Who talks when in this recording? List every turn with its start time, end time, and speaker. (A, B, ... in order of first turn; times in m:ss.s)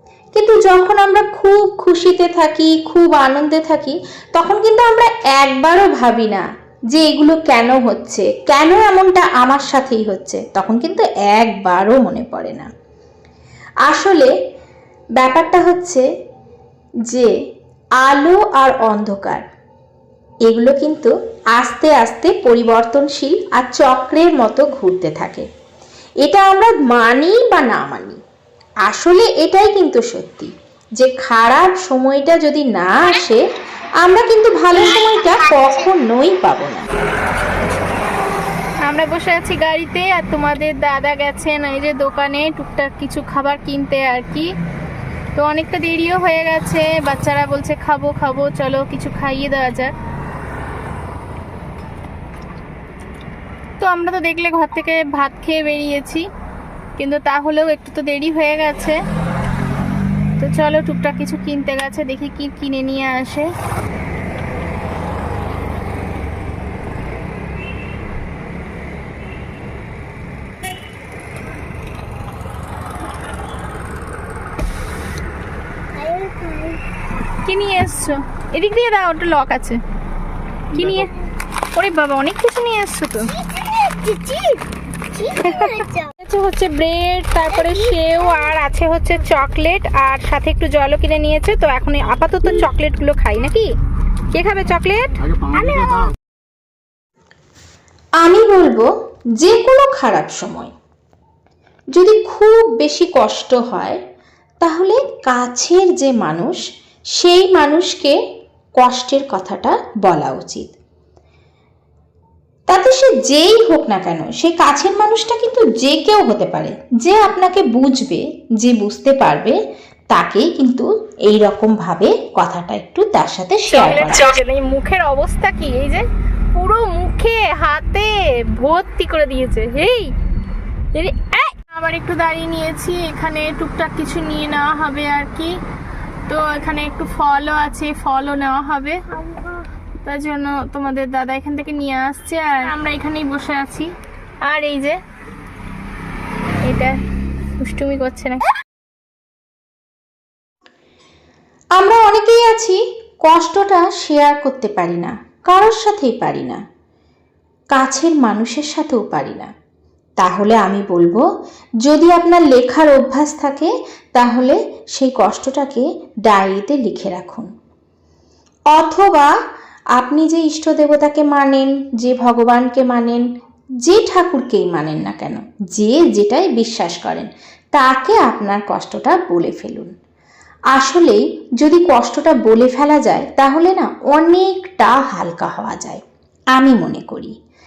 0:00.4-0:12.7 A
0:13.9-0:14.3 A
0:15.2-0:16.0 A
0:18.0-0:19.5 A
0:20.4-0:25.5 A
0:26.2-0:28.2 A
0:28.9-0:33.4 A
0:34.0-0:36.9 A
0:35.0-0:35.8 B
0:38.9-0:44.5 C
0:45.4-0:49.9 C
0:53.8-0:56.3 C
0:57.0-0:59.0 C
1:00.4-1:03.5 C
1:15.9-1:16.8 B
1:17.5-1:19.8 C
1:20.7-1:21.1 C
1:21.7-1:23.3 C
1:23.2-1:26.1 B
1:25.4-1:29.9 C
1:27.5-1:28.6 B
1:29.7-1:31.9 A
1:31.8-1:32.8 C
1:32.7-1:33.5 A
1:34.3-1:35.3 C
1:35.4-1:36.1 B
1:38.2-1:40.7 A
1:41.9-1:44.0 A
1:44.6-1:46.6 A
1:47.2-1:48.2 A
1:48.8-1:50.7 A
1:52.7-1:59.6 A
2:00.1-2:04.3 A
2:03.7-2:10.1 C
2:10.9-2:15.6 C
2:16.3-2:19.1 C
2:19.2-2:19.6 B
2:20.0-2:23.9 C
2:24.4-2:25.0 C
2:26.6-2:27.0 C
2:27.6-2:28.5 C
2:31.8-2:36.6 A
2:37.7-2:39.5 A
2:40.2-2:41.2 A
2:41.8-2:47.5 A
2:48.7-2:49.3 A
2:50.0-2:53.2 A
2:53.8-2:59.9 A
3:00.7-3:06.0 A
3:06.6-3:07.3 A